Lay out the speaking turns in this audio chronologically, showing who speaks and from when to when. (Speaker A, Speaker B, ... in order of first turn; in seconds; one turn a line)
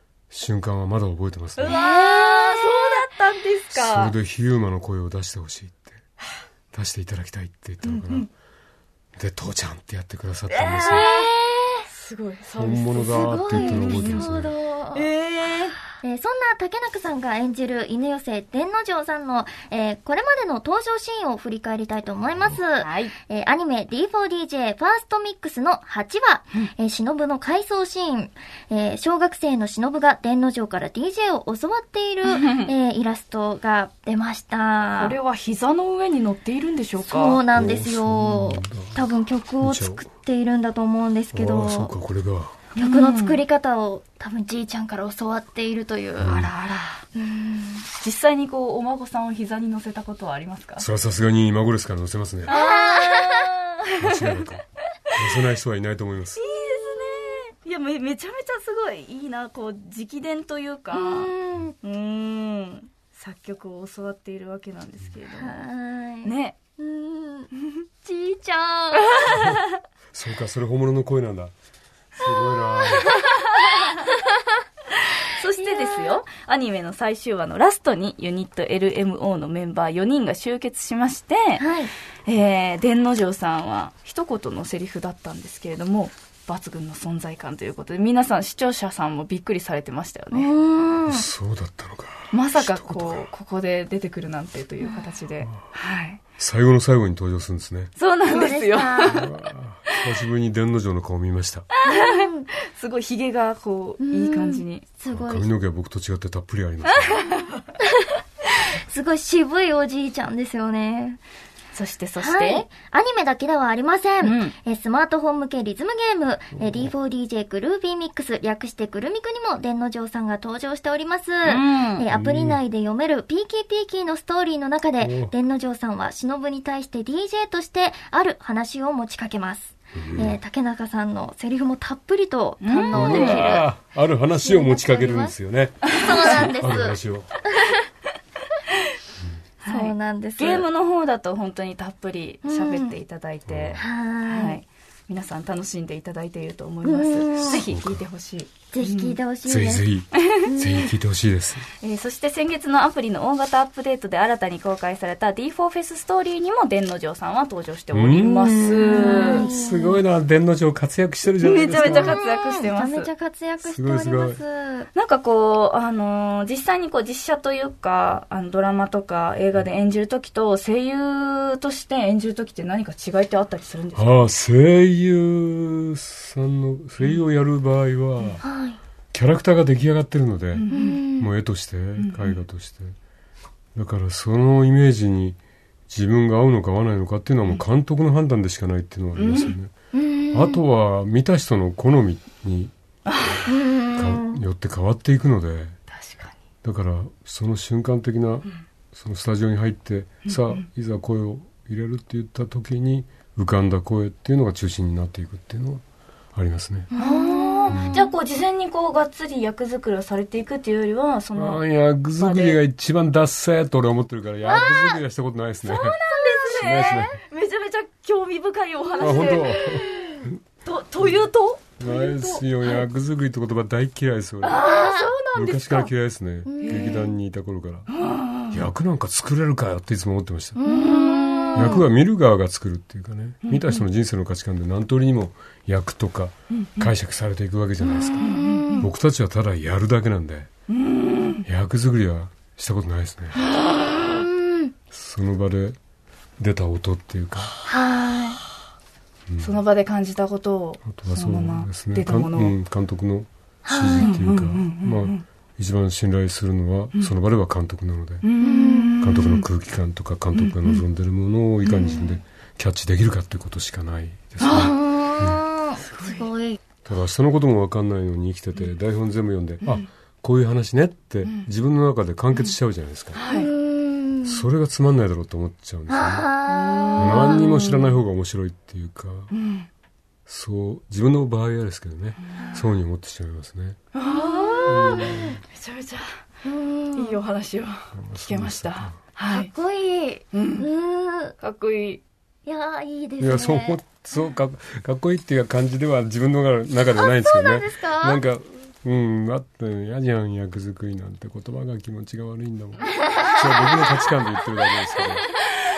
Speaker A: 0.3-1.8
Speaker B: 1.6-4.1
Speaker C: 1.8-3.0
Speaker A: 3.7-6.0
Speaker A: 6.7-8.3
Speaker B: 7.8-8.3
Speaker A: 9.2-11.1
Speaker B: 10.5-11.3
Speaker C: 10.9-11.8
Speaker B: 11.9-14.4
Speaker A: 12.6-14.6
Speaker C: 13.1-15.1
Speaker B: 14.9-15.8
Speaker C: 16.0-35.1
Speaker B: 22.8-23.1
Speaker B: 32.2-32.7
Speaker B: 34.9-37.4
Speaker C: 37.0-41.9
Speaker A: 37.5-39.0
Speaker A: 39.6-40.0
Speaker A: 41.3-42.6
Speaker B: 42.7-43.4
Speaker C: 42.8-46.5
Speaker A: 46.2-46.5
Speaker B: 46.3-47.0
Speaker C: 47.1-47.9
Speaker B: 47.9-50.9
Speaker A: 50.8-52.6
Speaker B: 52.5-54.3
Speaker C: 52.5-53.5
Speaker A: 54.0-56.4
Speaker B: 56.4-61.3
Speaker C: 60.9-61.7
Speaker B: 61.8-65.7
Speaker C: 65.3-67.5
Speaker B: 66.2-66.6
Speaker C: 68.0-69.3
Speaker B: 69.1-69.7
Speaker A: 70.1-71.5
Speaker A: 72.2-73.2
Speaker C: 72.2-73.0
Speaker B: 75.2-81.6
Speaker C: 75.6-76.2
Speaker C: 81.6-81.9
Speaker B: 82.2-90.5
Speaker C: 90.3-91.2
Speaker A: 91.1-93.3
Speaker B: 92.3-96.2
Speaker C: 94.8-95.1
Speaker A: 95.4-95.7
Speaker A: 96.4-97.9
Speaker B: 98.0-99.3
Speaker C: 98.3-99.3
Speaker A: 99.0-101.7
Speaker B: 101.7-104.8
Speaker C: 101.8-102.4
Speaker C: 104.0-105.5
Speaker A: 105.1-107.3
Speaker B: 106.8-107.6
Speaker C: 108.7-111.2
Speaker B: 111.7-112.6
Speaker C: 112.2-133.7
Speaker B: 114.2-114.5
Speaker A: 116.5-116.9
Speaker B: 121.4-122.0
Speaker A: 122.1-122.6
Speaker A: 125.0-125.3
Speaker A: 129.9-130.4
Speaker B: 132.6-133.6
Speaker A: 132.9-137.4
Speaker C: 134.3-135.3
Speaker C: 135.9-137.8
Speaker B: 139.6-149.2
Speaker C: 139.7-140.7
Speaker C: 142.4-143.0
Speaker A: 143.5-143.8
Speaker C: 143.8-144.6
Speaker C: 146.8-147.7
Speaker A: 147.5-148.1
Speaker C: 148.7-149.8
Speaker A: 149.4-151.7
Speaker B: 150.1-150.5
Speaker C: 150.5-150.9
Speaker B: 151.8-159.5
Speaker A: 157.9-162.2
Speaker C: 158.4-160.0
Speaker B: 161.4-163.1
Speaker C: 161.8-164.9
Speaker A: 163.6-164.4
Speaker B: 164.9-174.1
Speaker A: 173.9-178.4
Speaker C: 178.4-178.8
Speaker A: 179.1-182.9
Speaker B: 180.5-181.0
Speaker C: 180.7-181.3
Speaker B: 182.0-182.4
Speaker A: 183.7-185.4
Speaker A: 185.9-189.7
Speaker B: 189.2-189.6
Speaker C: 189.9-190.6
Speaker A: 190.3-192.7
Speaker B: 193.1-193.4
Speaker C: 193.5-194.4
Speaker A: 193.9-195.8
Speaker B: 195.9-196.4
Speaker A: 196.6-205.8
Speaker B: 200.2-200.7
Speaker A: 206.3-206.9
Speaker B: 206.9-211.6
Speaker C: 206.9-207.9
Speaker A: 207.7-208.1
Speaker A: 211.3-217.2
Speaker B: 212.2-212.6
Speaker B: 214.4-215.0
Speaker B: 215.6-222.9
Speaker C: 216.2-216.6
Speaker A: 219.0-220.4
Speaker A: 221.8-224.7
Speaker B: 224.4-225.9
Speaker C: 224.7-225.1
Speaker A: 225.3-227.9
Speaker C: 226.4-227.1
Speaker B: 226.6-227.1
Speaker B: 227.9-228.6
Speaker A: 228.5-230.6
Speaker C: 230.6-231.8
Speaker B: 230.6-231.8
Speaker A: 231.5-240.5
Speaker B: 233.4-233.8
Speaker B: 236.5-236.9
Speaker B: 238.2-238.9
Speaker C: 238.2-238.9
Speaker B: 240.7-241.4
Speaker A: 241.4-243.4
Speaker B: 243.3-244.0
Speaker C: 243.8-244.7
Speaker A: 244.9-245.8
Speaker A: 246.4-247.5
Speaker C: 247.7-248.4
Speaker B: 248.1-248.4
Speaker A: 249.3-249.6
Speaker B: 249.4-252.5
Speaker A: 250.8-258.3
Speaker C: 253.6-254.2
Speaker B: 254.0-255.2
Speaker B: 258.2-259.4
Speaker C: 258.4-259.0
Speaker A: 259.0-265.4
Speaker B: 260.3-260.8
Speaker B: 261.6-262.0
Speaker B: 264.4-264.7
Speaker C: 264.5-266.6
Speaker B: 265.9-266.3
Speaker A: 266.8-273.2
Speaker B: 273.1-273.5
Speaker C: 273.3-274.5
Speaker A: 274.2-276.3
Speaker C: 275.9-277.5
Speaker B: 276.4-277.9
Speaker A: 276.9-279.3
Speaker B: 279.3-279.7
Speaker A: 280.3-283.8
Speaker B: 282.3-282.6
Speaker C: 282.4-282.7
Speaker B: 283.9-286.2
Speaker C: 284.0-285.3
Speaker A: 284.6-285.4
Speaker C: 286.4-287.2
Speaker B: 286.9-289.5
Speaker A: 287.9-289.0
Speaker C: 289.3-291.4
Speaker B: 290.3-290.7
Speaker B: 291.4-292.0
Speaker C: 292.4-293.8
Speaker A: 293.2-305.3
Speaker C: 296.9-298.2
Speaker C: 303.1-304.1